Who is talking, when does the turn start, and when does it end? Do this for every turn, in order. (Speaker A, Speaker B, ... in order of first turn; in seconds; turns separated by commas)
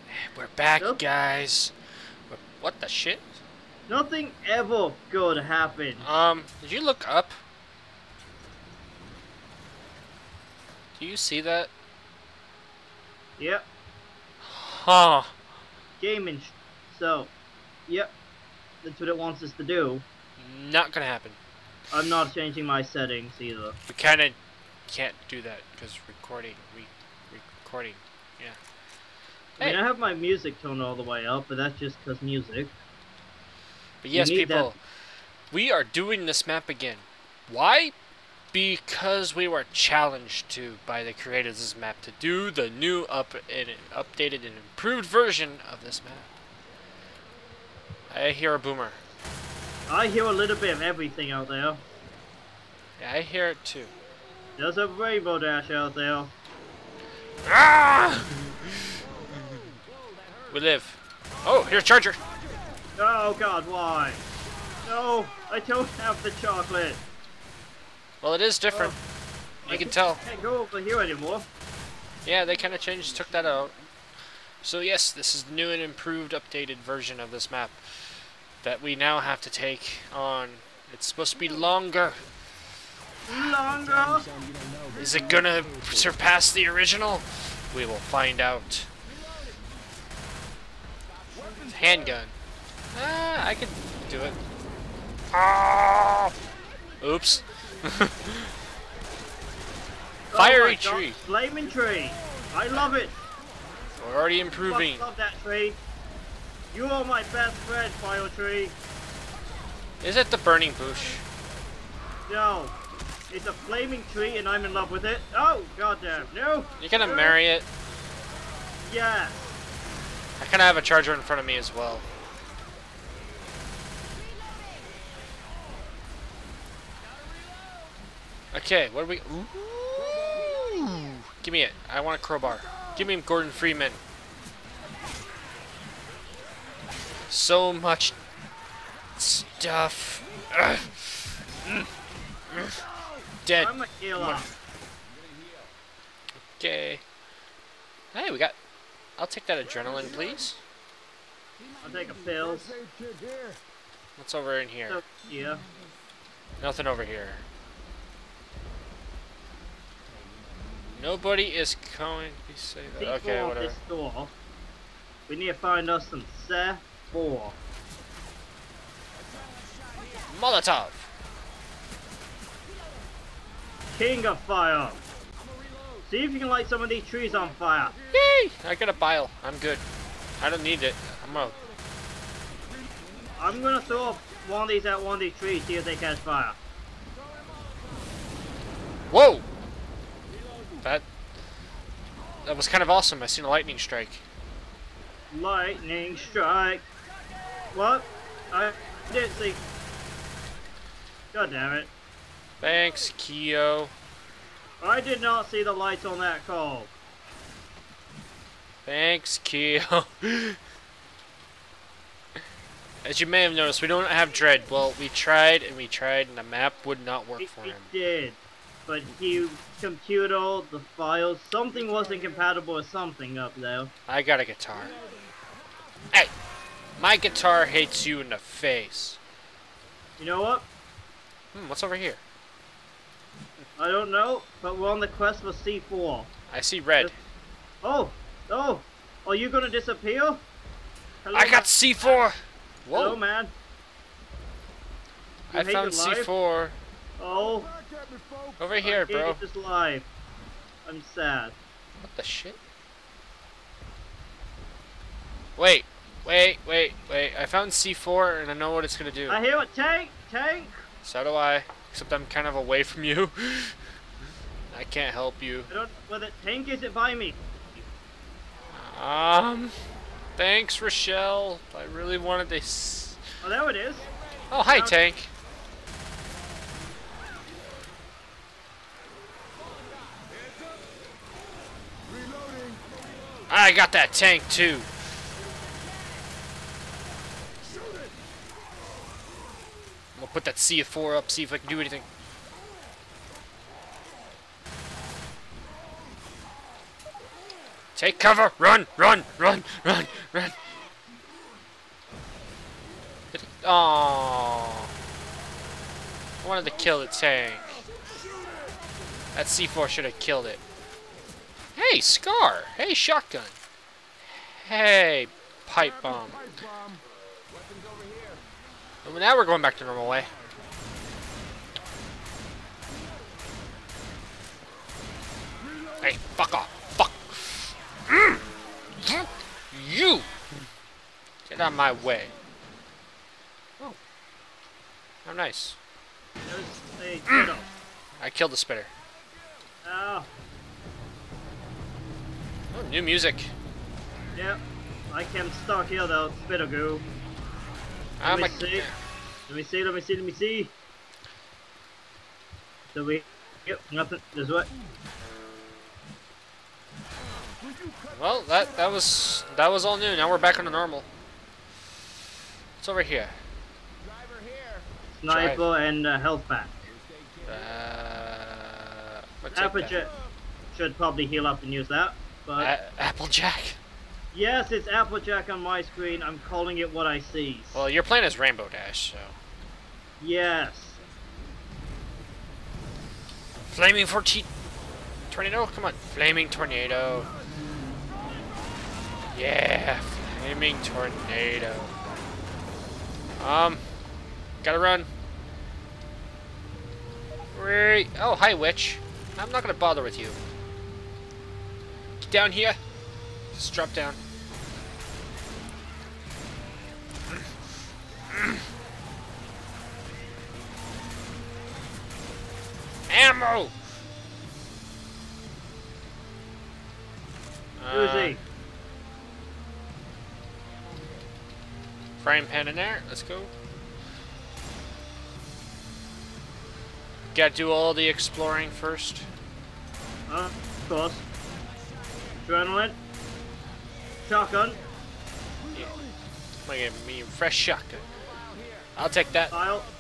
Speaker A: 0.1-1.7, Speaker B: 0.8-1.0, Speaker A: 2.3-3.4, Speaker B: 3.9-6.2, Speaker A: 6.0-7.4, Speaker A: 11.0-11.7, Speaker B: 13.4-13.7, Speaker A: 14.4-15.3, Speaker B: 16.0-17.3, Speaker B: 17.9-18.1, Speaker B: 18.8-20.1, Speaker A: 20.4-21.4, Speaker B: 21.9-23.8, Speaker A: 23.9-24.4, Speaker A: 24.9-28.6, Speaker B: 29.6-32.8, Speaker A: 34.0-34.8, Speaker B: 34.1-34.7, Speaker A: 35.5-38.0, Speaker A: 38.5-46.3, Speaker A: 48.1-49.0, Speaker B: 49.9-51.8, Speaker A: 53.0-53.9, Speaker B: 54.6-56.3, Speaker A: 57.4-59.0, Speaker A: 60.5-62.2, Speaker B: 63.0-64.2, Speaker B: 64.8-67.0, Speaker A: 68.2-69.0, Speaker A: 69.7-70.2, Speaker B: 69.7-71.5, Speaker A: 72.2-73.7, Speaker A: 74.6-82.2, Speaker B: 83.3-84.3, Speaker A: 85.0-88.9, Speaker A: 91.6-92.3, Speaker A: 92.9-94.4, Speaker A: 95.3-96.3, Speaker A: 97.0-98.5, Speaker B: 100.3-103.2, Speaker A: 100.3-101.2, Speaker A: 104.0-105.1, Speaker B: 104.6-105.8, Speaker B: 106.7-108.8, Speaker A: 110.0-111.2, Speaker B: 112.3-112.8, Speaker B: 113.3-117.4, Speaker A: 116.8-117.7, Speaker B: 118.8-119.5, Speaker A: 120.4-122.1, Speaker A: 128.5-134.0, Speaker A: 137.3-138.2, Speaker A: 139.2-141.9, Speaker A: 142.5-142.8, Speaker A: 143.4-144.5, Speaker B: 143.6-144.5, Speaker A: 146.6-147.0, Speaker A: 148.1-148.6, Speaker A: 149.2-150.6, Speaker B: 151.8-152.8, Speaker A: 154.2-155.0, Speaker B: 154.9-155.7, Speaker A: 156.6-157.4, Speaker A: 160.9-163.8, Speaker B: 162.9-164.3, Speaker B: 165.3-167.6, Speaker A: 170.3-171.1, Speaker B: 173.9-175.0, Speaker B: 176.1-178.0, Speaker A: 178.1-179.8, Speaker A: 180.4-181.6, Speaker B: 183.4-186.6, Speaker A: 189.1-189.5, Speaker A: 192.4-194.2, Speaker B: 195.3-196.9, Speaker B: 197.7-199.6, Speaker B: 201.3-201.9, Speaker A: 202.6-203.9, Speaker B: 204.8-206.9, Speaker A: 208.8-210.6, Speaker A: 213.0-217.9, Speaker B: 217.4-223.9, Speaker A: 224.1-225.0, Speaker A: 227.0-229.2, Speaker B: 230.2-230.7, Speaker A: 231.5-232.2, Speaker B: 233.8-236.3, Speaker A: 236.5-237.2, Speaker B: 237.8-240.4, Speaker B: 241.2-242.2, Speaker A: 241.3-243.2, Speaker B: 242.9-243.5, Speaker B: 245.5-246.3, Speaker A: 245.5-246.8, Speaker B: 247.2-247.7, Speaker A: 248.6-249.4, Speaker B: 248.8-250.1, Speaker B: 250.9-251.6, Speaker A: 252.0-252.6, Speaker A: 255.6-259.4, Speaker B: 259.3-260.9, Speaker A: 261.0-263.8, Speaker A: 264.7-265.7, Speaker B: 265.7-267.4, Speaker A: 268.7-269.8, Speaker A: 270.4-273.2, Speaker B: 273.4-274.1, Speaker A: 274.5-275.3, Speaker B: 274.6-275.0, Speaker A: 283.5-284.9, Speaker A: 290.2-292.1, Speaker A: 298.0-300.6, Speaker A: 303.3-304.9, Speaker A: 306.4-307.8, Speaker A: 309.4-310.6, Speaker A: 311.8-313.6, Speaker A: 314.3-316.6, Speaker A: 319.1-320.3, Speaker A: 326.0-328.4, Speaker A: 329.0-330.3, Speaker A: 331.5-332.4, Speaker A: 335.2-335.8, Speaker B: 336.5-337.7, Speaker A: 338.2-338.9, Speaker B: 339.8-340.3, Speaker A: 342.7-343.5, Speaker B: 344.4-347.1, Speaker A: 348.2-348.9, Speaker B: 348.2-348.9, Speaker B: 349.5-350.7, Speaker B: 352.9-354.7, Speaker A: 358.1-361.1, Speaker A: 362.8-363.4, Speaker B: 365.1-366.9, Speaker A: 365.3-365.6, Speaker A: 367.4-370.0, Speaker B: 369.5-370.1, Speaker B: 370.7-372.7, Speaker A: 372.6-373.8, Speaker B: 374.3-377.9, Speaker A: 377.7-379.4, Speaker B: 380.2-381.0, Speaker A: 383.6-384.5, Speaker A: 385.3-387.3, Speaker A: 389.3-391.9, Speaker A: 393.4-393.8, Speaker A: 394.6-395.1, Speaker A: 397.5-400.4, Speaker A: 402.2-402.8, Speaker A: 403.5-404.2, Speaker A: 408.3-408.6, Speaker A: 413.1-413.7, Speaker A: 417.8-418.4, Speaker B: 417.9-418.4, Speaker A: 422.2-423.5, Speaker A: 427.3-429.3, Speaker B: 430.3-431.2, Speaker B: 432.3-433.0, Speaker B: 434.3-434.8, Speaker A: 436.7-438.1, Speaker A: 439.0-439.6, Speaker B: 439.5-439.9